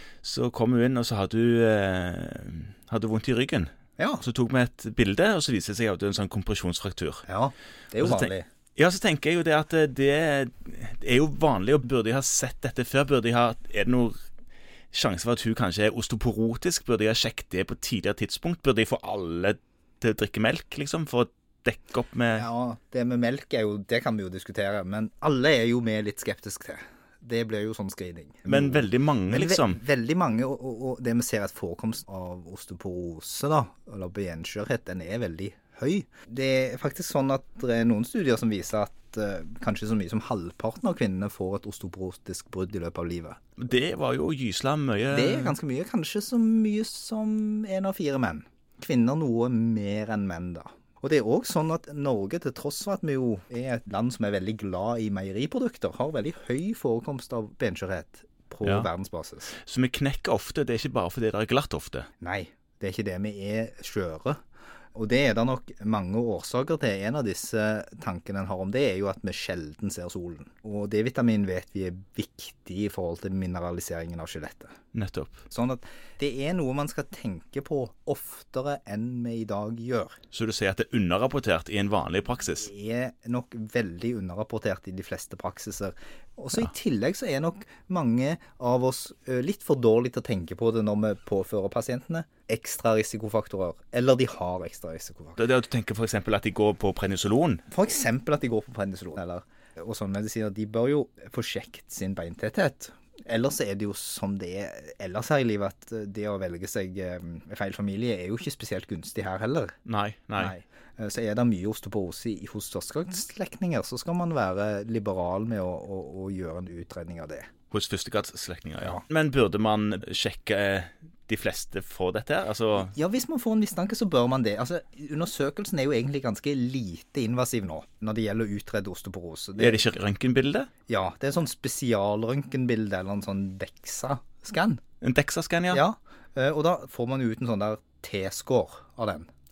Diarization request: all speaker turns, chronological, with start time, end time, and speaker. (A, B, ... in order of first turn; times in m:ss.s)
0:00.2-0:07.2 A
0:04.0-0:04.2 B
0:07.3-0:08.5 B
0:08.0-0:14.1 A
0:14.9-0:22.4 A
0:22.4-0:43.4 B
0:28.5-0:29.8 A
0:43.6-0:45.6 A
0:45.1-0:59.5 B
0:58.6-0:58.9 A
0:59.5-1:02.1 A
1:02.2-1:04.4 B
1:04.9-1:14.7 B
1:14.9-1:15.4 A
1:15.5-1:20.2 B
1:20.3-1:22.7 A
1:22.6-1:35.4 B
1:35.4-1:37.6 A
1:37.7-1:49.7 B
1:49.8-1:50.6 A
1:50.4-1:57.5 B
1:57.7-2:02.9 A
2:02.8-2:09.8 B
2:09.6-2:10.7 A
2:10.9-2:14.8 B
2:15.0-2:15.8 A
2:15.7-2:19.3 B